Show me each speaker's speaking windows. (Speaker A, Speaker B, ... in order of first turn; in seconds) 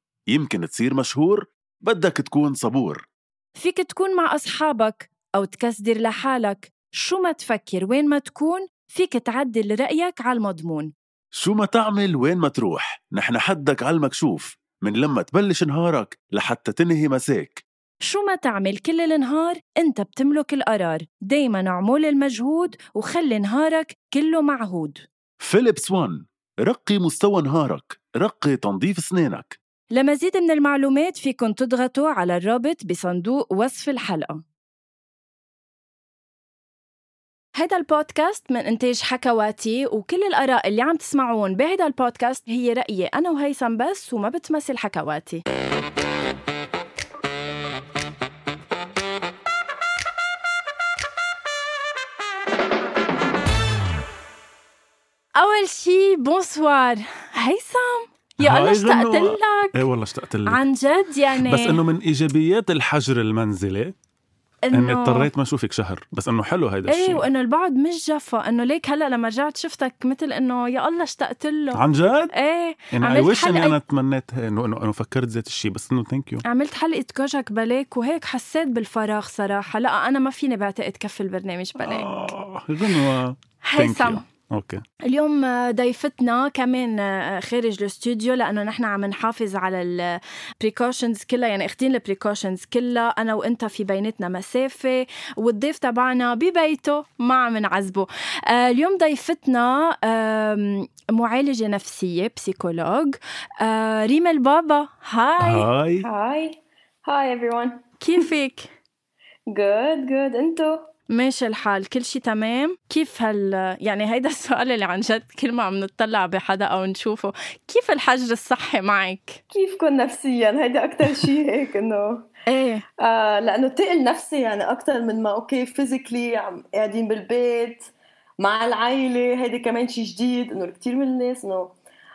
Speaker A: 0.3-3.0, 11.5-17.6, 25.4-29.5
Speaker B: 0.4-1.1, 2.1-2.7, 11.5-12.5, 13.1-17.5, 25.7-26.0, 27.1-27.7, 28.6-29.3, 58.4-60.6, 61.4-63.9, 64.7-67.2, 71.7-72.3, 72.9-76.4, 81.8-84.8, 105.4-106.0
Speaker C: 3.5-10.9, 18.0-25.0, 29.9-34.4, 37.5-45.4, 55.4-59.8, 60.5-61.8, 64.7-65.3, 66.9-71.8, 72.3-73.8, 76.4-82.1, 83.7-84.2, 85.0-105.7, 108.0-108.7, 111.1-119.4, 122.5-122.8
Speaker D: 106.0-108.2, 109.5-110.8, 119.5-122.3, 123.0-131.7